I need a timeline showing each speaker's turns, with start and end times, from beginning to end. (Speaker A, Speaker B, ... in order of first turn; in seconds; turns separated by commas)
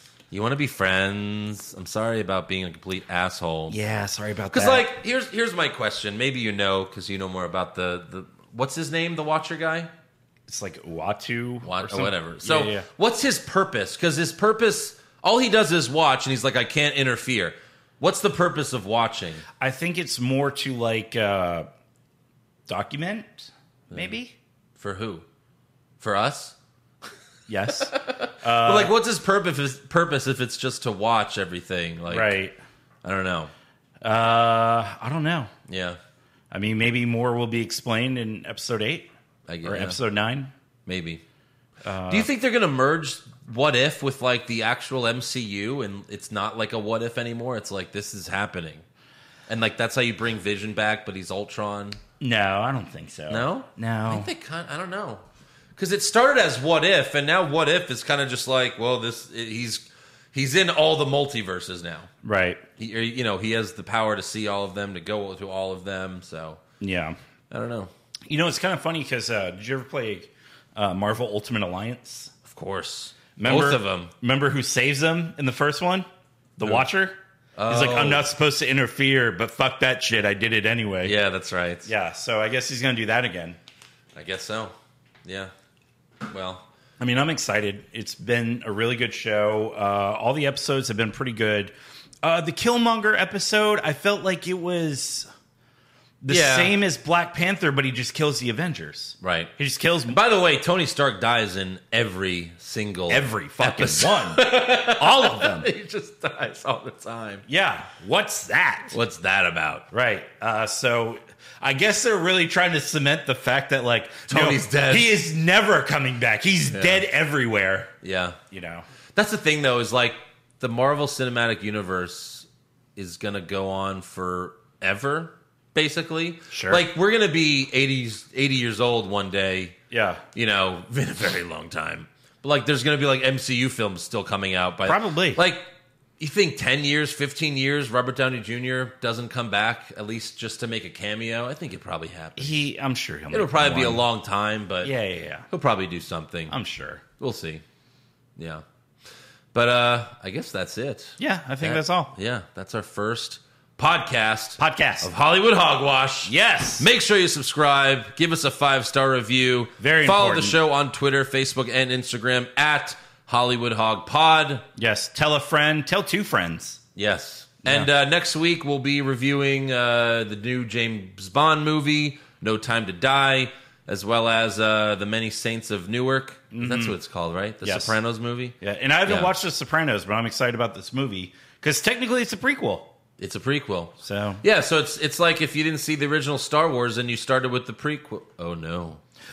Speaker A: 0.3-3.8, Speaker B: 3.7-4.9, Speaker A: 4.5-9.9, Speaker B: 10.5-12.9, Speaker A: 11.6-19.4, Speaker B: 19.6-21.7, Speaker B: 22.7-24.3, Speaker A: 24.8-25.2, Speaker A: 26.0-26.6, Speaker B: 27.5-28.9, Speaker A: 27.8-32.4, Speaker B: 32.1-32.6, Speaker A: 33.0-33.5, Speaker B: 34.0-35.5, Speaker A: 35.7-36.0, Speaker B: 36.5-39.1, Speaker A: 39.5-40.0, Speaker B: 39.6-40.5, Speaker A: 40.9-41.2, Speaker B: 41.8-42.3, Speaker A: 42.1-48.8, Speaker A: 49.5-52.0, Speaker B: 52.2-54.3, Speaker A: 53.3-55.2, Speaker A: 55.8-62.1, Speaker B: 62.2-62.6, Speaker A: 62.8-66.6, Speaker B: 66.8-67.2, Speaker A: 67.5-67.9, Speaker B: 68.3-72.3, Speaker A: 72.5-74.1, Speaker B: 73.4-76.1, Speaker B: 76.6-77.2, Speaker A: 77.6-78.3, Speaker B: 77.7-81.1, Speaker A: 81.0-81.9, Speaker B: 81.8-83.6, Speaker A: 84.1-85.5, Speaker A: 86.3-86.6, Speaker B: 87.0-95.3, Speaker B: 96.2-100.2, Speaker A: 96.3-96.8, Speaker A: 99.2-99.5, Speaker A: 100.1-107.4, Speaker B: 103.1-105.7, Speaker B: 107.5-109.0, Speaker A: 108.9-109.9, Speaker B: 109.9-117.9, Speaker A: 114.3-115.2, Speaker A: 116.7-117.0, Speaker A: 118.0-118.4, Speaker B: 118.5-118.9, Speaker A: 119.1-129.7, Speaker B: 126.5-126.8, Speaker B: 129.9-130.2, Speaker A: 130.3-135.7, Speaker B: 134.9-135.4, Speaker A: 136.2-142.6, Speaker B: 142.4-144.1, Speaker A: 143.3-144.9, Speaker B: 144.8-145.5, Speaker A: 145.5-146.5, Speaker B: 146.5-147.0, Speaker A: 147.2-147.6, Speaker A: 148.4-148.6, Speaker A: 149.5-164.6, Speaker B: 151.2-152.1, Speaker B: 154.6-155.1, Speaker B: 156.2-156.9, Speaker B: 159.8-160.6, Speaker B: 164.8-166.8, Speaker A: 166.9-179.3, Speaker B: 176.5-176.9, Speaker B: 177.6-177.9, Speaker B: 178.6-182.9, Speaker A: 183.2-189.0, Speaker B: 184.0-184.4